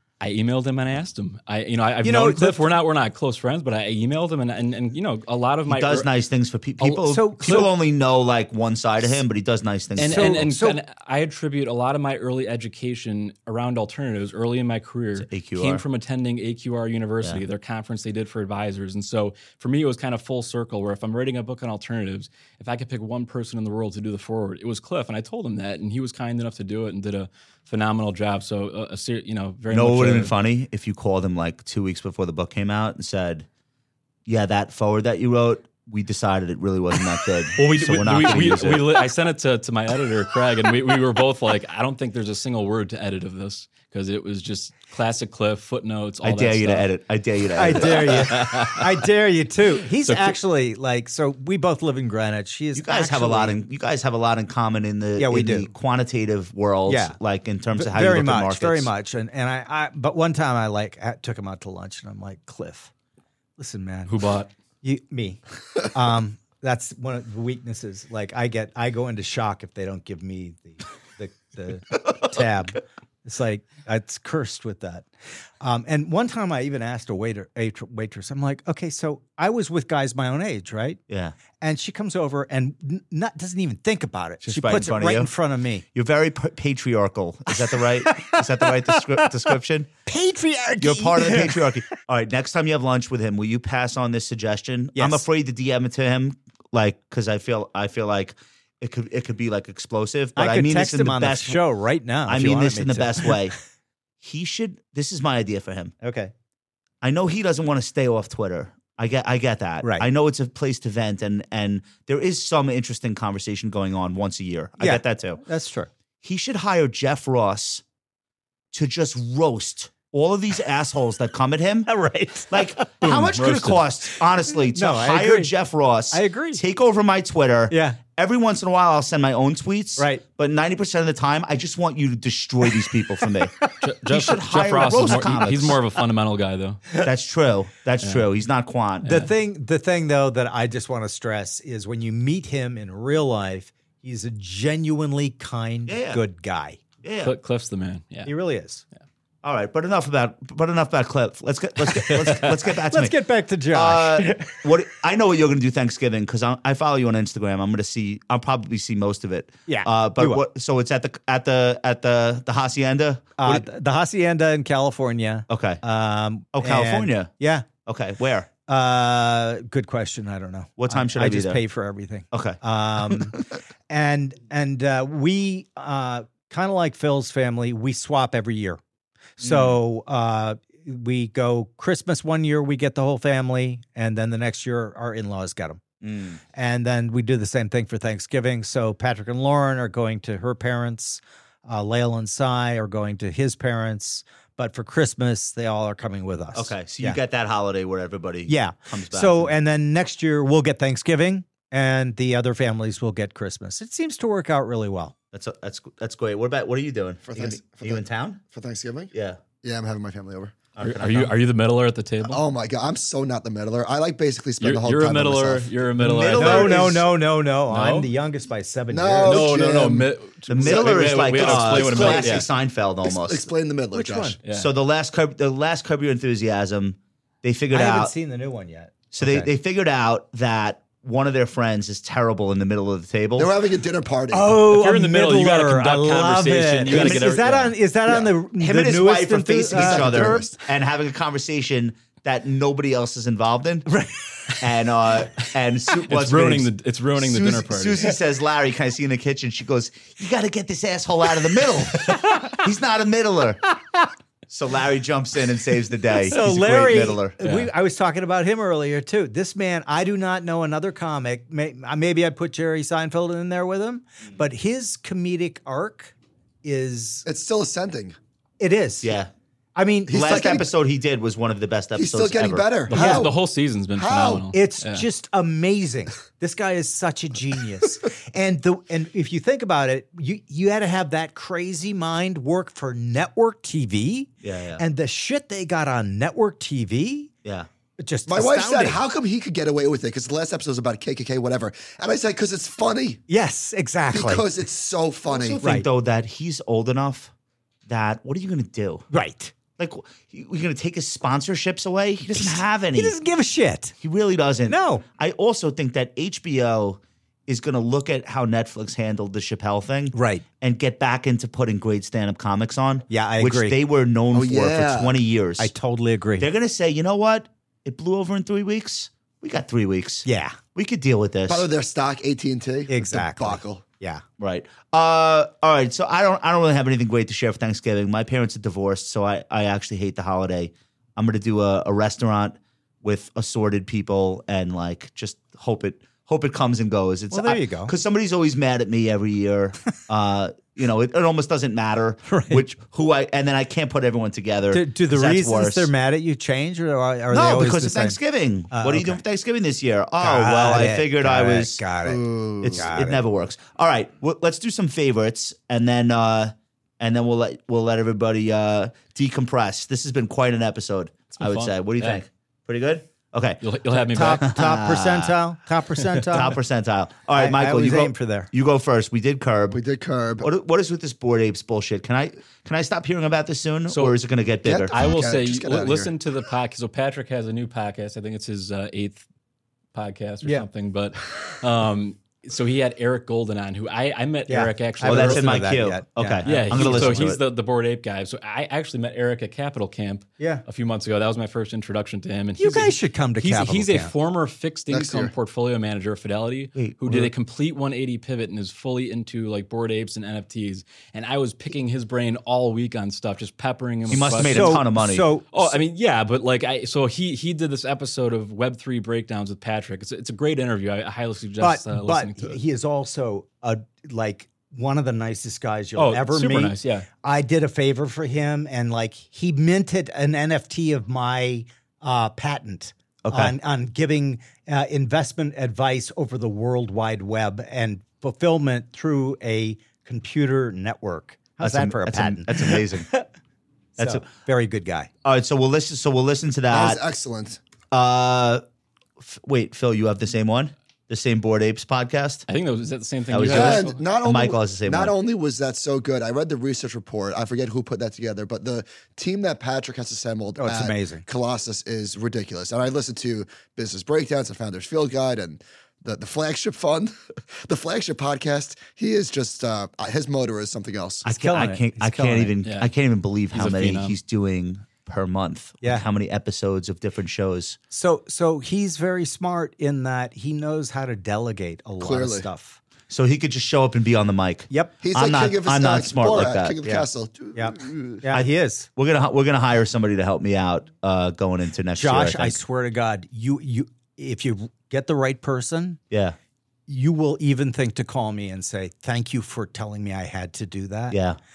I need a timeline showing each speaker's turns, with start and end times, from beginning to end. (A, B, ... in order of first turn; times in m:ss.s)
0:00.2-0:06.1 A
0:02.0-0:02.7 B
0:05.7-0:10.4 C
0:06.8-0:07.7 B
0:10.0-0:10.8 B
0:10.0-0:30.3 A
0:15.2-0:15.8 C
0:29.7-0:33.5 C
0:34.3-0:38.9 C
0:37.6-0:46.9 A
0:46.2-0:48.3 C
0:47.6-0:53.6 B
0:47.7-0:49.1 A
0:50.0-0:50.4 A
0:52.8-0:58.9 C
0:55.2-0:55.7 B
0:56.9-0:57.2 B
0:57.8-1:02.9 B
1:03.6-1:04.2 B
1:04.1-1:04.5 A
1:04.8-1:15.1 B
1:15.6-1:21.0 B
1:21.1-1:21.4 C
1:21.6-1:25.8 B
1:24.4-1:25.3 C
1:25.9-1:29.9 C
1:28.0-1:29.4 B
1:30.1-1:31.7 B
1:30.8-1:41.6 C
1:35.0-1:35.2 B
1:40.4-1:43.4 B
1:42.3-1:43.6 C
1:44.2-1:45.9 C
1:46.0-1:46.3 B
1:47.0-1:55.4 C
1:49.8-1:50.1 B
1:54.8-1:55.9 B
1:56.2-1:57.8 C
1:58.7-2:01.9 C
2:01.9-2:03.4 B
2:02.5-2:13.5 C
2:03.1-2:03.8 A
2:04.7-2:05.5 B
2:06.1-2:06.6 B
2:07.7-2:08.0 B
2:10.0-2:10.2 B
2:13.8-2:16.8 A
2:14.1-2:15.8 C
2:17.0-2:19.2 C
2:19.0-2:26.8 B
2:25.9-2:26.2 C
2:27.0-2:27.3 C
2:27.2-2:28.3 A
2:28.2-2:28.8 B
2:29.4-2:33.2 C
2:32.1-2:32.4 A
2:32.8-2:34.6 B
2:33.7-2:43.6 C
2:39.7-2:40.4 B
2:43.4-2:47.7 B
2:45.5-2:45.8 C
2:46.5-2:47.3 C
2:47.8-2:48.5 C
2:48.7-2:58.8 B
2:50.8-2:51.6 C
2:52.3-2:53.2 C
2:59.4-3:05.8 B
2:59.4-2:59.8 C
3:06.0-3:06.4 C
3:06.5-3:17.2 B
3:16.5-3:19.5 C
3:18.5-3:25.2 B
3:25.3-3:28.4 C
3:27.3-3:30.6 D
3:29.1-3:29.4 C
3:30.8-3:31.4 C
3:30.8-3:32.4 A
3:32.2-3:35.8 D
3:34.6-3:37.0 A
3:36.0-3:39.5 B
3:36.3-3:36.9 C
3:37.7-3:38.1 A
3:38.9-3:42.5 D
3:39.2-3:42.5 A
3:40.5-3:43.5 C
3:43.0-3:44.4 D
3:43.9-3:44.4 B
3:44.4-3:44.7 A
3:44.5-3:48.1 C
3:47.7-3:49.5 B
3:49.1-3:53.5 C
3:53.4-3:54.6 D
3:54.3-4:00.5 B
3:54.7-3:57.8 A
3:56.9-3:57.3 C
3:58.1-4:03.9 C
3:59.7-4:00.6 D
4:03.9-4:04.2 B
4:04.6-4:13.6 C
4:06.1-4:08.1 A
4:14.5-4:17.4 C
4:16.2-4:27.3 B
4:17.4-4:17.7 A
4:27.2-4:28.2 D
4:28.6-4:29.1 B
4:29.0-4:29.3 C
4:29.8-4:30.3 B
4:30.1-4:30.7 D
4:30.1-4:32.8 C
4:32.0-4:33.4 D
4:32.9-4:35.1 A
4:32.9-4:33.3 B
4:34.0-4:34.5 D
4:34.5-4:47.3 B
4:44.4-4:44.8 C
4:48.0-4:49.0 B
4:48.3-4:53.2 D
4:53.3-4:54.4 B
4:54.1-4:55.6 D
4:55.3-4:57.3 C
4:57.9-4:59.1 C
4:59.1-4:59.5 B
4:59.8-5:03.2 C
5:02.3-5:04.0 B
5:04.0-5:15.7 C
5:04.7-5:05.0 B
5:10.1-5:10.4 B
5:13.1-5:13.8 B
5:14.3-5:15.2 D
5:15.6-5:16.5 B
5:16.4-5:21.7 C
5:20.3-5:20.6 B
5:21.5-5:23.8 D
5:22.9-5:24.2 B
5:24.4-5:45.9 C
5:37.3-5:37.9 B
5:42.3-5:42.6 B
5:44.7-5:48.2 B
5:47.3-5:51.8 C
5:48.7-5:49.2 B
5:50.2-5:53.2 B
5:52.0-5:52.9 D
5:52.6-6:03.6 C
6:01.3-6:02.2 A
6:03.6-6:04.5 A
6:04.1-6:06.6 B
6:04.4-6:05.4 C
6:06.3-6:09.8 C
6:07.3-6:08.5 B
6:09.7-6:10.5 D
6:10.4-6:15.0 C
6:13.9-6:14.2 A
6:14.6-6:16.1 D
6:14.9-6:19.2 A
6:19.9-6:25.5 A
6:24.5-6:27.3 B
6:25.0-6:27.4 C
6:26.4-6:44.8 A
6:32.6-6:34.1 B
6:34.9-6:35.3 D
6:36.8-6:37.3 C
6:44.1-6:45.3 C
6:44.4-6:45.8 B
6:45.5-6:52.6 A
6:51.6-7:13.3 B
6:56.0-6:57.1 A
7:03.2-7:03.6 C
7:11.6-7:13.1 C
7:14.0-7:15.1 B
7:14.0-7:14.3 C
7:15.2-7:17.0 C
7:16.7-7:17.6 D
7:17.9-7:18.6 C
7:19.2-7:22.5 C
7:22.5-7:24.0 A
7:23.3-7:25.2 C
7:23.4-7:41.2 D
7:30.6-7:31.2 B
7:41.2-7:47.8 C
7:41.3-7:42.5 B
7:42.6-7:42.9 A
7:43.5-7:44.2 A
7:45.8-7:46.1 B
7:47.9-7:52.8 B
7:52.0-7:52.5 D
7:53.1-7:56.8 C
7:54.7-7:55.0 B
7:55.0-7:58.3 D
7:56.8-7:58.9 B
7:58.3-8:02.6 C
8:02.0-8:06.0 B
8:06.1-8:06.4 C
8:06.9-8:11.2 B
8:11.1-8:11.4 C